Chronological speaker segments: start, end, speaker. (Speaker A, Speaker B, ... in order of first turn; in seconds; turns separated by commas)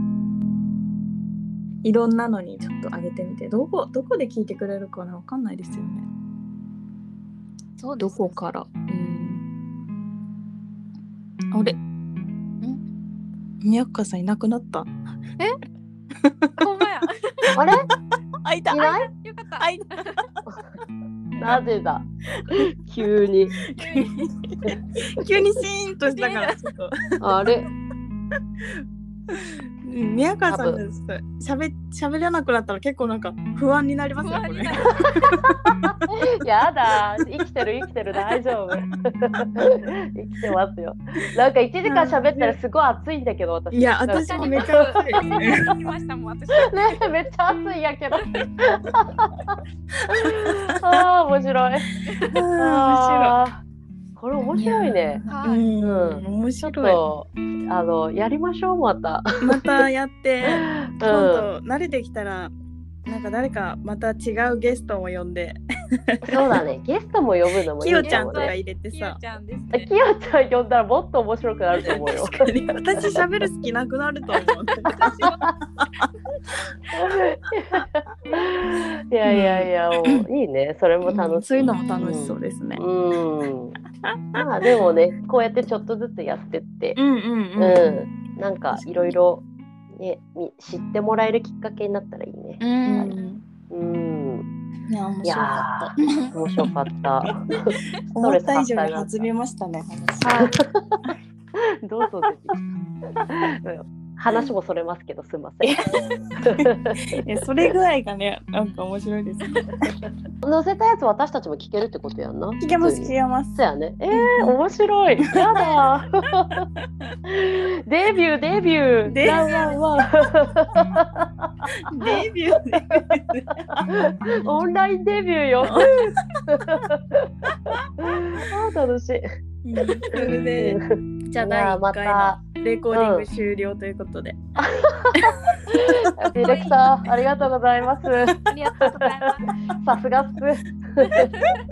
Speaker A: 1.8-6.1, Speaker B: 7.8-8.4, Speaker A: 8.0-9.4, Speaker A: 13.6-14.9, Speaker A: 16.2-16.7, Speaker B: 16.6-17.5, Speaker C: 17.6-17.9, Speaker A: 18.4-19.0, Speaker C: 18.7-19.1, Speaker B: 19.1-20.2, Speaker A: 19.6-20.2, Speaker C: 21.4-23.6, Speaker A: 23.7-27.5, Speaker B: 23.8-24.1, Speaker B: 26.1-26.6, Speaker C: 27.2-27.7, Speaker A: 29.3-36.0, Speaker C: 30.5-30.8, Speaker B: 34.2-35.1, Speaker C: 35.3-45.4, Speaker A: 41.8-42.6, Speaker A: 43.7-45.8, Speaker B: 44.2-47.0, Speaker C: 46.6-49.5, Speaker B: 48.2-48.5, Speaker A: 50.1-51.0, Speaker C: 50.1-51.9, Speaker A: 52.3-53.4, Speaker C: 52.5-53.6, Speaker C: 54.2-55.2, Speaker A: 54.4-57.1, Speaker B: 55.3-55.7, Speaker C: 55.8-59.4, Speaker A: 59.4-62.5, Speaker C: 60.5-61.5, Speaker A: 63.1-65.6, Speaker A: 66.2-66.6, Speaker C: 66.3-68.5, Speaker A: 67.8-69.2, Speaker B: 68.0-69.9, Speaker C: 69.7-72.4, Speaker A: 71.7-76.1, Speaker B: 75.1-75.5, Speaker C: 76.9-83.8, Speaker A: 79.2-80.2, Speaker A: 81.0-82.8, Speaker A: 84.3-84.9, Speaker C: 84.3-87.0, Speaker A: 87.0-88.1, Speaker C: 87.6-93.2, Speaker A: 88.7-89.1, Speaker B: 92.7-93.3, Speaker A: 92.7-93.4, Speaker C: 93.7-94.5, Speaker A: 94.9-97.4, Speaker C: 95.2-99.3, Speaker A: 98.1-100.5, Speaker C: 100.4-101.1, Speaker C: 101.9-102.5, Speaker C: 103.3-105.9, Speaker A: 105.6-109.9, Speaker C: 106.4-107.0, Speaker C: 110.4-116.7, Speaker A: 112.6-113.6, Speaker A: 114.1-114.6, Speaker C: 117.3-121.7, Speaker A: 119.1-119.5, Speaker B: 119.2-120.1, Speaker A: 121.9-124.5, Speaker C: 123.7-127.3, Speaker A: 125.6-126.4, Speaker C: 128.0-129.2, Speaker A: 129.6-134.4, Speaker C: 130.2-132.4, Speaker C: 132.9-133.3, Speaker C: 134.6-139.2, Speaker B: 136.3-137.0, Speaker B: 138.5-139.5, Speaker C: 139.8-141.3